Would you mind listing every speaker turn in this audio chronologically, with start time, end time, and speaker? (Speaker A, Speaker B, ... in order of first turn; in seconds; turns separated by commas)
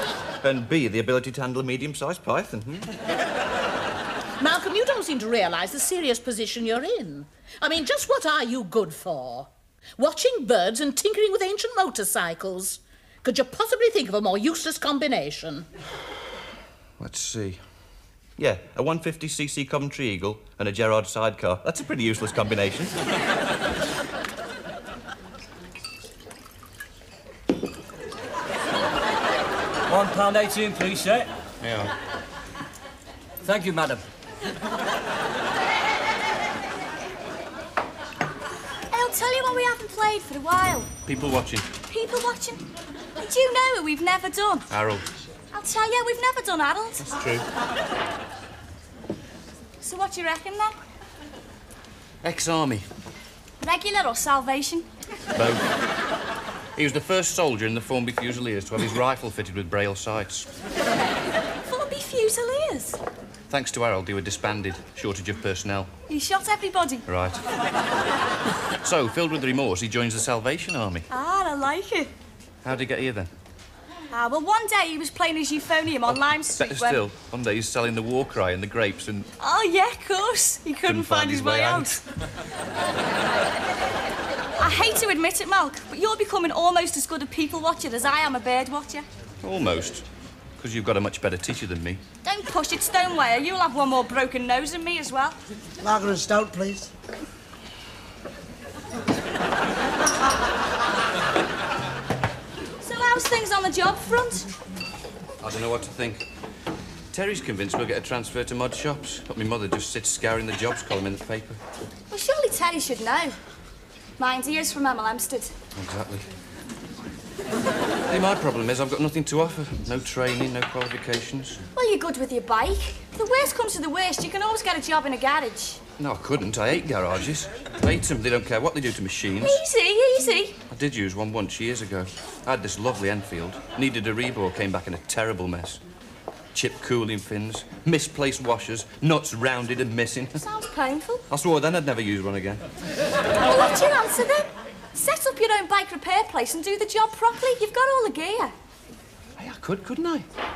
Speaker A: 0.4-2.9, Speaker B: 4.4-15.7, Speaker A: 17.0-17.6, Speaker A: 18.4-22.9, Speaker C: 29.9-31.3, Speaker A: 31.6-31.9, Speaker C: 33.4-34.0, Speaker D: 38.9-40.9, Speaker A: 41.0-41.7, Speaker D: 41.9-42.6, Speaker D: 43.2-44.7, Speaker A: 44.7-45.1, Speaker D: 45.5-47.0, Speaker A: 47.0-47.4, Speaker D: 49.8-50.7, Speaker A: 52.2-52.9, Speaker D: 53.6-54.9, Speaker A: 55.3-55.6, Speaker A: 56.7-60.5, Speaker D: 61.6-63.0, Speaker A: 63.5-65.9, Speaker D: 66.1-67.0, Speaker A: 67.1-67.5, Speaker A: 68.8-71.1, Speaker D: 71.1-72.1, Speaker A: 72.6-73.3, Speaker D: 74.1-77.0, Speaker A: 76.5-79.3, Speaker D: 79.4-82.0, Speaker A: 80.9-82.0, Speaker D: 84.6-89.0, Speaker A: 89.4-90.0, Speaker A: 90.6-92.0, Speaker D: 92.2-95.4, Speaker D: 102.8-104.5, Speaker A: 105.4-106.3, Speaker A: 107.1-111.6, Speaker D: 112.1-113.4, Speaker D: 114.2-115.5, Speaker A: 115.7-116.3, Speaker A: 118.1-121.6, Speaker D: 121.7-125.8, Speaker A: 126.0-129.6, Speaker D: 129.4-130.6, Speaker A: 130.7-135.8, Speaker A: 136.5-140.4, Speaker D: 140.4-141.2, Speaker A: 141.3-142.6, Speaker D: 143.4-148.5, Speaker A: 149.4-150.2